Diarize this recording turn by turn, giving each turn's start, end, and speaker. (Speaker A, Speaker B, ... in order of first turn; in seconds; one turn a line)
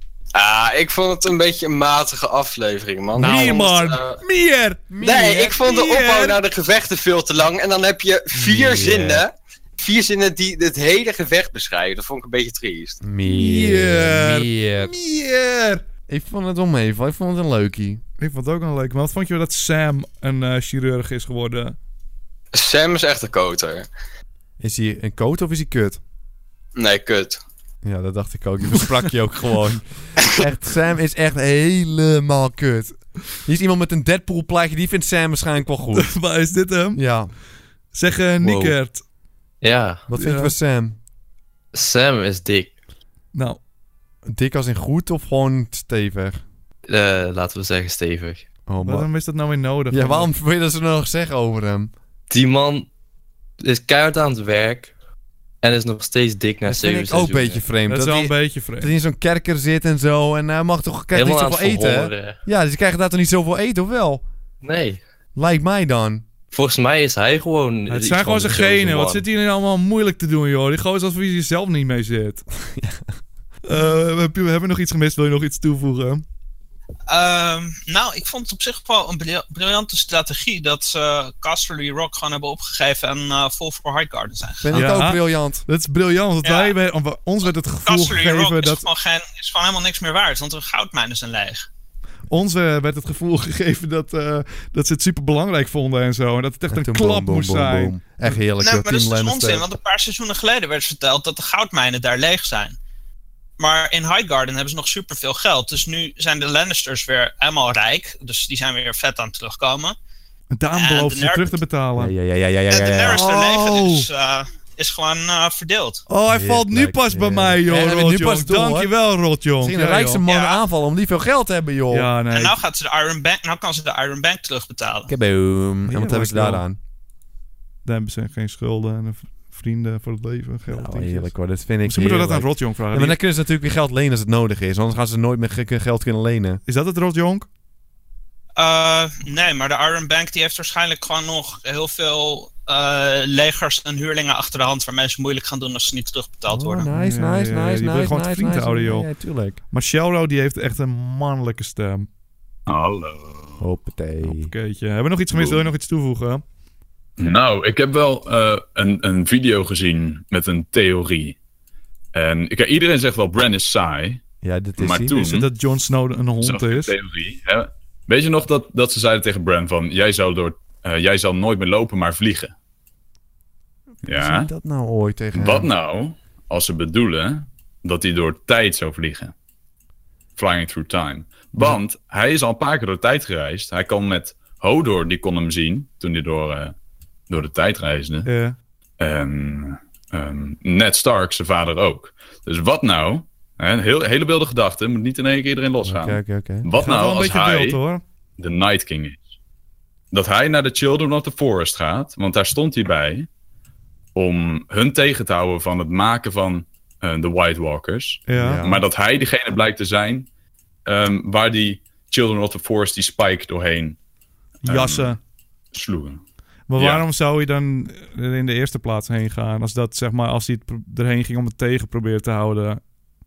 Speaker A: 3.1-4.8
Speaker B: 3.2-3.6
Speaker B: 4.9-5.6
Speaker C: 5.0-9.2
Speaker A: 5.5-6.4
Speaker B: 8.3-9.2
Speaker C: 9.8-12.9
Speaker B: 13.0-14.9
Speaker A: 13.2-15.8
Speaker B: 16.1-18.0
Speaker A: 18.2-21.8
Speaker B: 24.6-26.0
Speaker B: 27.8-36.1
Speaker A: 28.7-29.0
Speaker A: 35.9-37.0
Speaker B: 36.9-37.3
Speaker A: 37.9-39.0
Speaker B: 38.4-38.7
Speaker D: 39.6-40.0
Speaker B: 40.1-41.0
Speaker A: 40.1-40.5
Speaker D: 41.7-42.7
Speaker A: 43.3-43.6
Speaker B: 44.2-46.4
Speaker D: 46.9-48.4
Speaker B: 48.6-49.1
Speaker A: 48.8-50.3
Speaker B: 49.9-51.9
Speaker D: 52.3-52.9
Speaker D: 53.6-54.9
Speaker D: 55.6-57.6
Speaker B: 56.6-64.2
Speaker A: 57.9-58.9
Speaker D: 61.1-62.4
Speaker D: 64.6-65.0
Speaker B: 65.3-66.2
Speaker D: 66.5-69.2
Speaker A: 67.9-72.4
Speaker B: 72.6-73.0
Speaker A: 73.7-76.2
Speaker E: 77.1-84.7
Speaker B: 84.6-85.6
Speaker A: 84.7-88.8
Speaker E: 86.4-86.7
Speaker E: 87.8-91.7
Speaker A: 92.3-98.4
Speaker B: 96.7-99.7
Speaker E: 98.6-102.8
Speaker E: 103.6-110.0
Speaker A: 110.5-112.1
Speaker E: 110.7-111.6
Speaker B: 112.0-113.5
Speaker E: 112.7-116.0
Speaker A: 113.1-114.0
Speaker A: 116.1-120.2
Speaker B: 116.3-118.9
Speaker B: 119.6-122.1
Speaker E: 120.2-120.6
Speaker A: 121.9-122.6
Speaker E: 122.3-125.1
Speaker B: 125.0-126.8
Speaker A: 125.9-126.6
Speaker A: 127.8-131.3
Speaker B: 130.7-136.6
Speaker A: 131.8-133.2
Speaker A: 136.7-137.5
Speaker E: 138.6-146.9
Speaker B: 146.5-149.6
Speaker A: 146.9-149.1
Speaker A: 149.7-152.1
Speaker F: 152.7-153.6
Speaker B: 153.6-154.5
Speaker A: 154.2-156.4
Speaker F: 155.3-155.7
Speaker F: 157.2-161.4
Speaker F: 162.1-164.2
Speaker B: 164.4-165.2
Speaker F: 164.8-165.5
Speaker A: 165.1-166.9
Speaker F: 166.4-172.5
Speaker F: 174.0-174.5
Speaker B: 174.0-175.7
Speaker F: 175.3-179.3
Speaker F: 180.4-186.7
Speaker F: 187.3-188.3
Speaker A: 188.2-188.6
Speaker F: 189.0-197.8
Speaker B: 195.8-196.7
Speaker A: 196.8-198.0
Speaker F: 198.4-199.2
Speaker F: 200.1-203.3
Speaker F: 204.1-210.3
Speaker A: 208.3-208.6
Speaker B: 208.3-208.8
Speaker F: 210.8-213.9
Speaker F: 214.6-215.2
Speaker A: 214.7-215.2
Speaker F: 215.7-216.2
Speaker A: 216.7-222.8
Speaker F: 216.7-217.0